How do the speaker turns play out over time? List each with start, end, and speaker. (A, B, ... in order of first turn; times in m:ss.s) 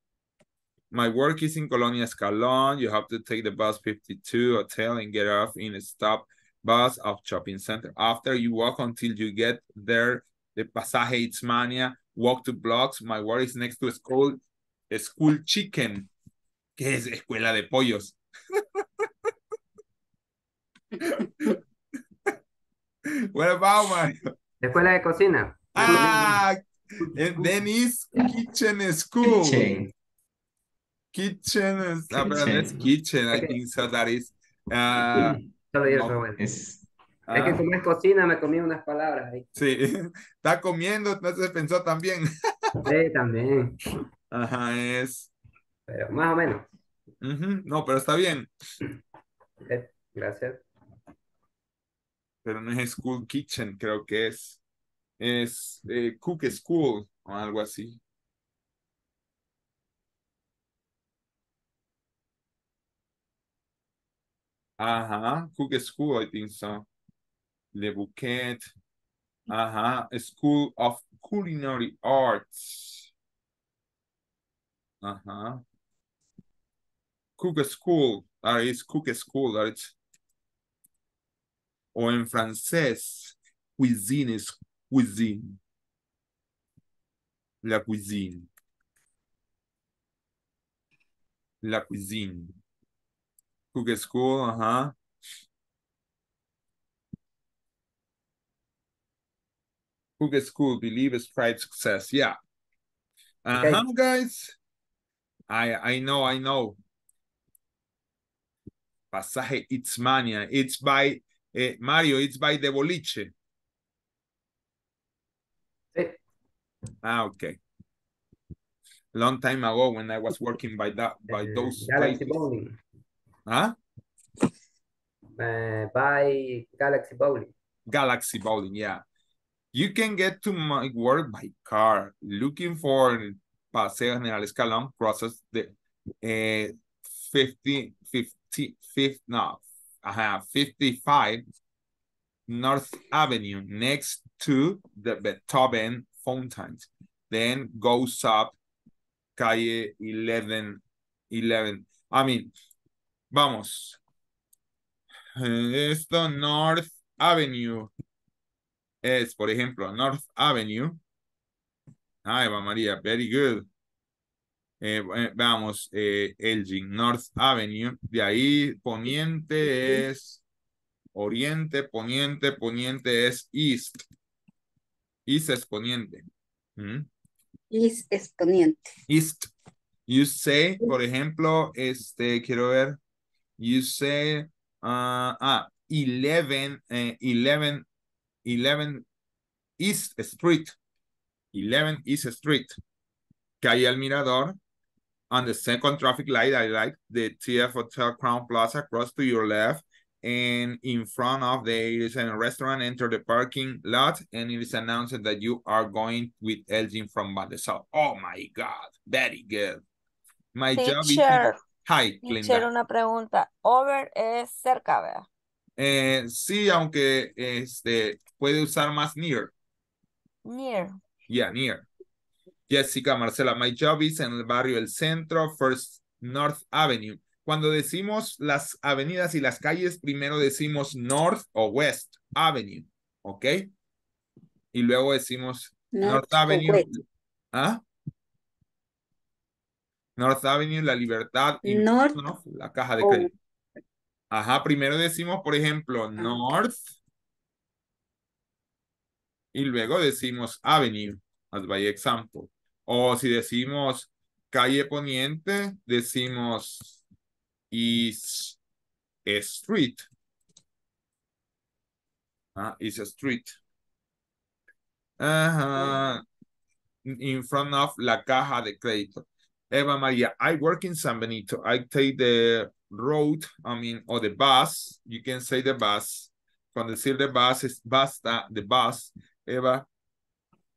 0:00.9-0:14.4 A
0:14.9-0:16.1 A
0:16.8-0:18.2 A
0:21.0-0:21.5 A
0:23.3-0:24.3 A
0:24.6-0:26.4 B
0:25.7-0:29.7 A
0:29.2-0:29.9 C
0:31.1-0:36.2 A
0:32.1-0:32.9 C
0:33.3-0:33.6 B
0:35.7-0:36.4 B
0:36.4-0:36.8 C
0:37.3-0:39.5 B
0:37.3-0:37.6 A
0:39.6-0:42.3 A
0:42.8-0:43.8 B
0:44.3-0:45.3 A
0:45.9-0:46.7 B
0:47.2-0:48.5 A
0:49.7-0:50.6 B
0:52.4-0:54.6 A
0:55.2-0:58.0 A
1:04.8-1:06.8 A
1:07.7-1:08.7 A
1:09.5-1:13.1 A
1:15.0-1:15.6 A
1:17.4-1:19.9 A
1:21.9-1:25.6 A
1:27.6-1:28.5 A
1:31.6-1:32.5 A
1:33.7-1:34.9 A
1:40.2-1:42.4 A
1:43.4-1:44.6 A
1:43.6-1:43.8 B
1:45.5-1:46.8 A
1:49.1-1:53.3 A
1:57.0-1:57.6 A
1:59.1-2:02.4 A
2:01.3-2:02.8 B
2:03.5-2:03.8 A
2:05.4-2:07.5 B
2:07.9-2:09.0 A
2:09.7-2:16.7 A
2:17.3-2:21.4 A
2:22.5-2:28.6 A
2:29.4-2:32.5 A
2:33.3-2:34.0 A
2:35.4-2:37.9 A
2:39.0-2:41.0 A
2:42.2-2:43.7 A
2:44.8-2:50.4 A
2:51.1-2:54.0 A
2:55.3-2:56.2 A
2:56.8-2:57.1 A
2:57.7-2:58.9 D
2:59.1-2:59.5 A
3:00.1-3:03.0 A
3:03.6-3:07.8 A
3:08.4-3:09.0 A
3:09.8-3:10.8 A
3:11.5-3:12.8 A
3:13.6-3:14.6 A
3:15.3-3:29.8 A
3:30.5-3:32.7 A
3:30.8-3:31.6 E
3:32.2-3:35.2 E
3:35.8-3:39.5 A
3:40.4-3:41.0 E
3:41.3-3:41.8 A
3:42.7-3:53.7 A
3:54.7-3:57.8 A
3:55.9-3:56.9 D
4:00.2-4:03.3 A
4:01.6-4:02.2 D
4:03.0-4:03.3 D
4:04.3-4:06.9 A
4:09.5-4:17.0 A
4:17.7-4:18.6 A
4:19.2-4:20.0 A
4:22.6-4:23.6 A
4:25.2-4:26.2 A
4:27.0-4:39.8 A